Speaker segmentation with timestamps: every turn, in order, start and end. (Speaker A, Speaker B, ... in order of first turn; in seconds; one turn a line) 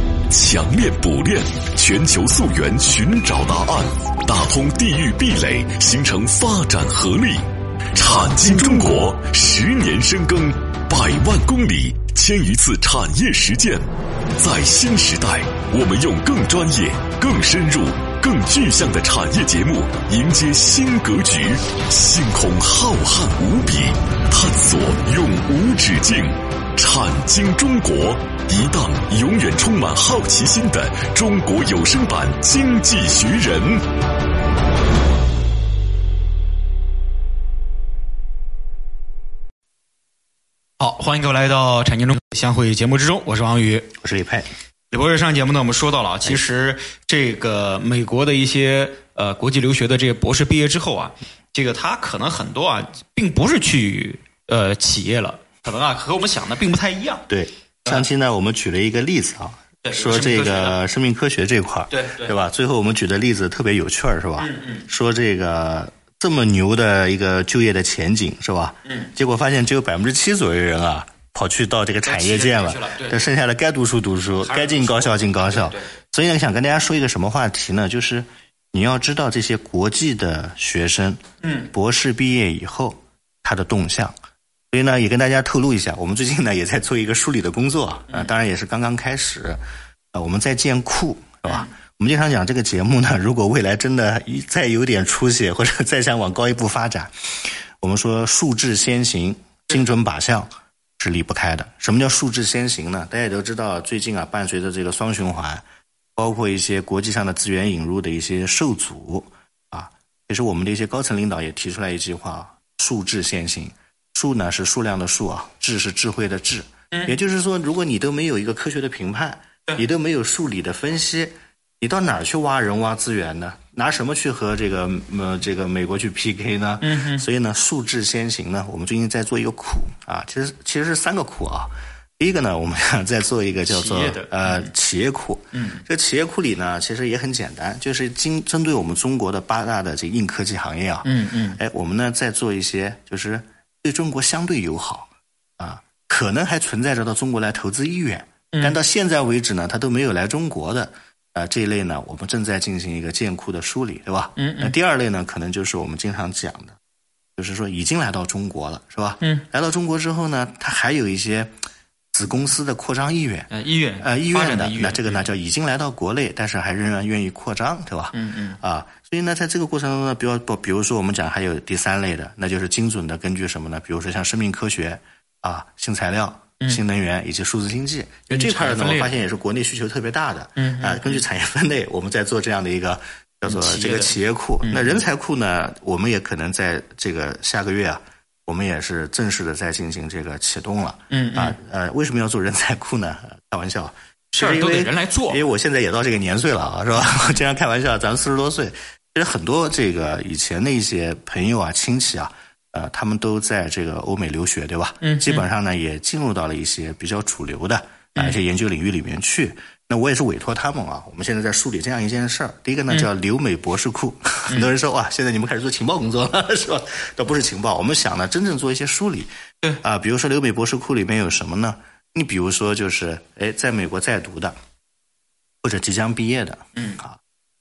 Speaker A: 0.3-7.4
Speaker A: 7.9-13.8
Speaker A: 14.4-33.8
Speaker B: 40.8-43.9
Speaker C: 44.0-44.5
Speaker B: 44.9-57.2
Speaker C: 57.3-84.2
Speaker B: 59.8-60.8
Speaker B: 61.9-62.3
Speaker B: 64.4-64.8
Speaker B: 72.0-73.3
Speaker B: 74.4-75.9
Speaker B: 81.4-81.7
Speaker C: 84.7-89.6
Speaker C: 90.1-97.1
Speaker C: 97.8-105.6
Speaker C: 106.2-156.8
Speaker B: 126.8-127.2
Speaker B: 133.6-134.7
Speaker B: 135.5-135.8
Speaker B: 141.0-141.6
Speaker B: 154.3-154.7
Speaker C: 157.4-161.5
Speaker C: 162.1-224.6
Speaker B: 163.5-165.3
Speaker B: 168.1-168.6
Speaker B: 178.3-179.2
Speaker B: 180.6-181.2
Speaker B: 183.4-185.0
Speaker B: 191.1-191.6
Speaker B: 194.3-195.4
Speaker B: 205.0-205.4
Speaker C: 225.6-227.2